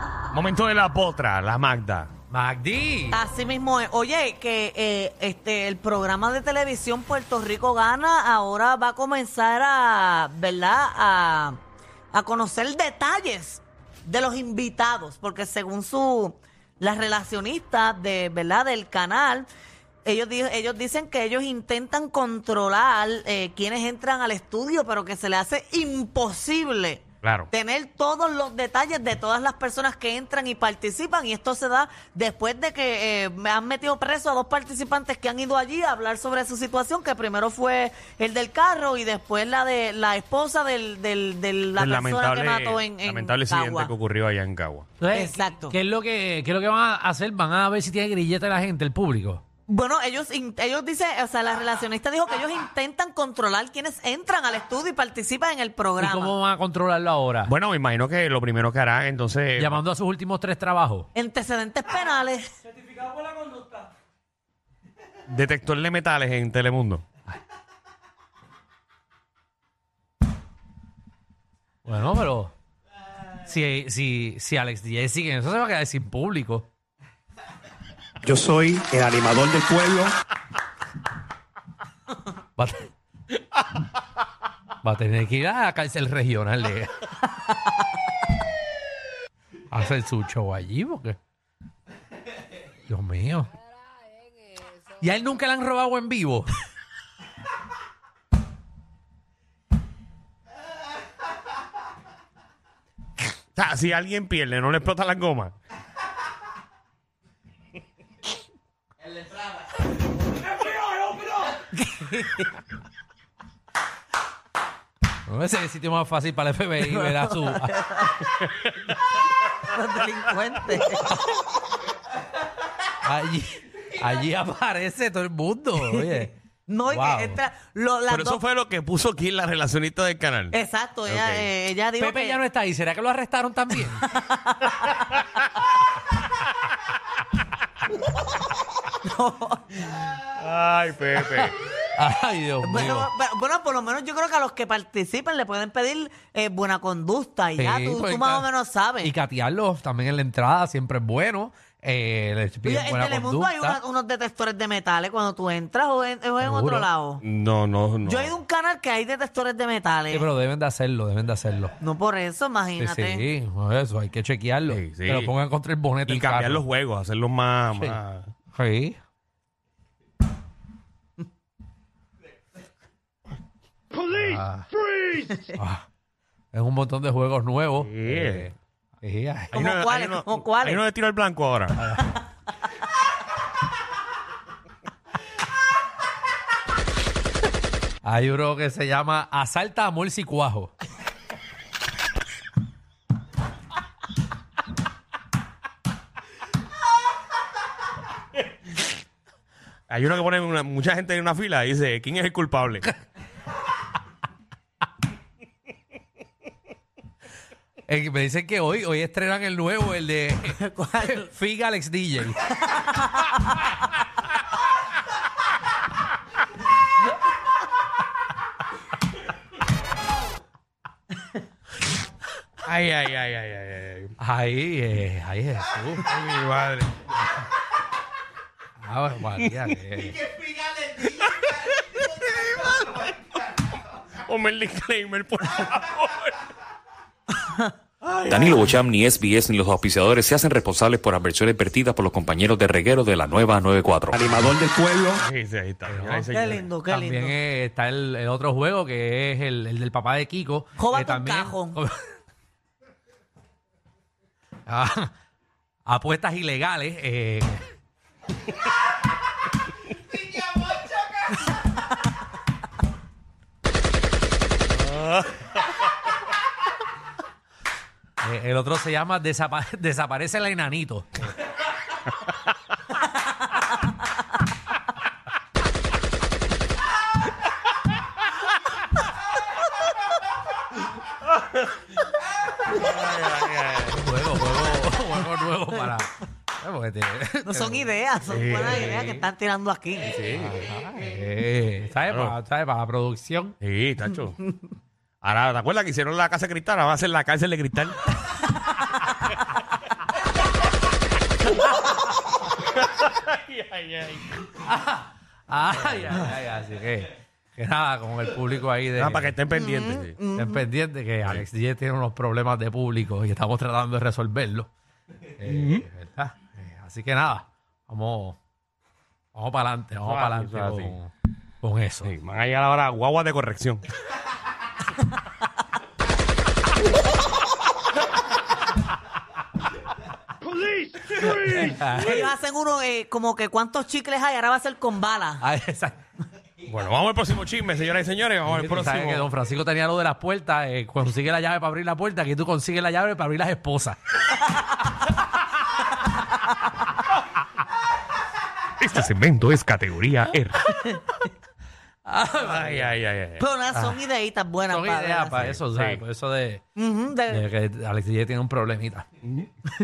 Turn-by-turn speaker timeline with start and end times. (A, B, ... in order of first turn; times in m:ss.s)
0:00.3-0:02.1 A
0:02.3-0:03.2 B
0:03.1-0:11.6 C
0:12.1-0:19.5 C
0:20.0-0:43.9 C
0:27.2-0:27.5 A
0:41.8-0:44.9 A
0:45.0-0:49.4 B
0:45.1-0:45.8 C
0:49.7-0:56.3 C
0:56.0-0:57.5 B
0:57.4-0:59.8 A
0:59.6-1:01.1 B
1:01.2-1:02.6 C
1:03.4-1:03.7 C
1:05.3-1:07.0 A
1:11.8-1:12.5 B
1:13.4-1:16.7 B
1:18.2-1:20.2 D
1:22.6-1:22.9 B
1:24.8-1:27.0 B
1:29.7-1:31.2 B
1:32.9-1:33.5 B
1:34.9-1:36.5 B
1:43.6-1:45.5 A
1:51.2-1:52.5 C
1:55.3-1:58.1 B
1:57.2-1:58.3 C
1:58.4-1:58.7 A
1:59.4-2:01.2 C
2:03.0-2:06.4 B
2:06.0-2:08.4 C
2:06.9-2:07.4 B
2:08.1-2:11.5 A
2:10.5-2:12.4 C
2:12.0-2:14.0 B
2:14.0-2:15.1 C
2:19.0-2:20.1 C
2:20.3-2:21.5 A
2:21.2-2:23.1 B
2:22.6-2:29.1 C
2:27.6-2:33.8 B
2:32.6-2:37.2 C
2:36.4-2:36.9 B
2:37.2-2:38.4 A
2:38.0-2:40.3 C
2:40.1-2:41.7 B
2:41.8-2:43.3 C
2:42.8-2:46.6 B
2:44.7-2:45.3 A
2:46.0-2:48.3 A
2:48.5-2:49.0 B
2:54.1-2:54.7 B
2:55.5-2:55.8 B
2:56.5-2:59.7 B
2:57.8-2:58.5 A
2:59.5-3:00.8 C
2:59.5-3:01.8 A
3:01.8-3:02.2 B
3:08.0-3:10.7 B
3:19.9-3:22.9 A
3:27.9-3:32.4 B
3:30.5-3:31.3 C
3:32.7-3:33.3 C
3:42.6-3:44.1 A
3:44.2-3:46.1 B
3:46.0-3:47.0 A
3:48.8-3:50.2 B
3:51.0-3:52.7 A
3:54.2-3:56.4 A
3:57.3-3:58.6 C
3:58.3-4:04.2 E
4:04.1-4:05.2 D
4:05.2-4:06.7 A
4:05.9-4:12.1 B
4:06.3-4:07.4 C
4:10.8-4:11.8 C
4:14.7-4:15.1 B
4:15.8-4:17.7 B
4:24.8-4:25.5 A
4:28.2-4:31.2 B
4:42.7-4:44.0 A
4:43.9-4:47.9 B
4:47.4-4:50.2 C
4:48.3-4:49.2 A
4:50.0-4:50.5 A
4:50.3-4:53.6 B
4:52.1-4:52.4 A
4:53.6-4:54.4 A
4:55.2-4:58.1 A
5:02.6-5:04.4 A
5:04.5-5:09.4 B
5:09.0-5:10.2 A
5:09.5-5:10.6 C
5:10.3-5:14.7 B
5:15.4-5:18.4 B
5:15.5-5:15.9 A
5:19.3-5:21.1 B
5:20.0-5:21.0 A
5:21.6-5:22.1 B
5:22.0-5:23.8 A
5:31.1-5:32.3 B
5:31.9-5:35.4 C
5:35.4-5:36.0 B
5:36.6-5:39.3 A
5:38.5-5:44.0 B
5:48.8-5:50.7 A
5:50.8-5:51.0 C
5:52.0-5:53.0 B
5:52.4-5:53.5 A
5:53.4-5:55.4 C
5:53.7-5:54.0 B
5:54.7-5:56.6 B
5:55.4-5:56.0 A
5:56.8-5:57.4 C
5:57.3-5:59.1 B
5:59.2-5:59.5 A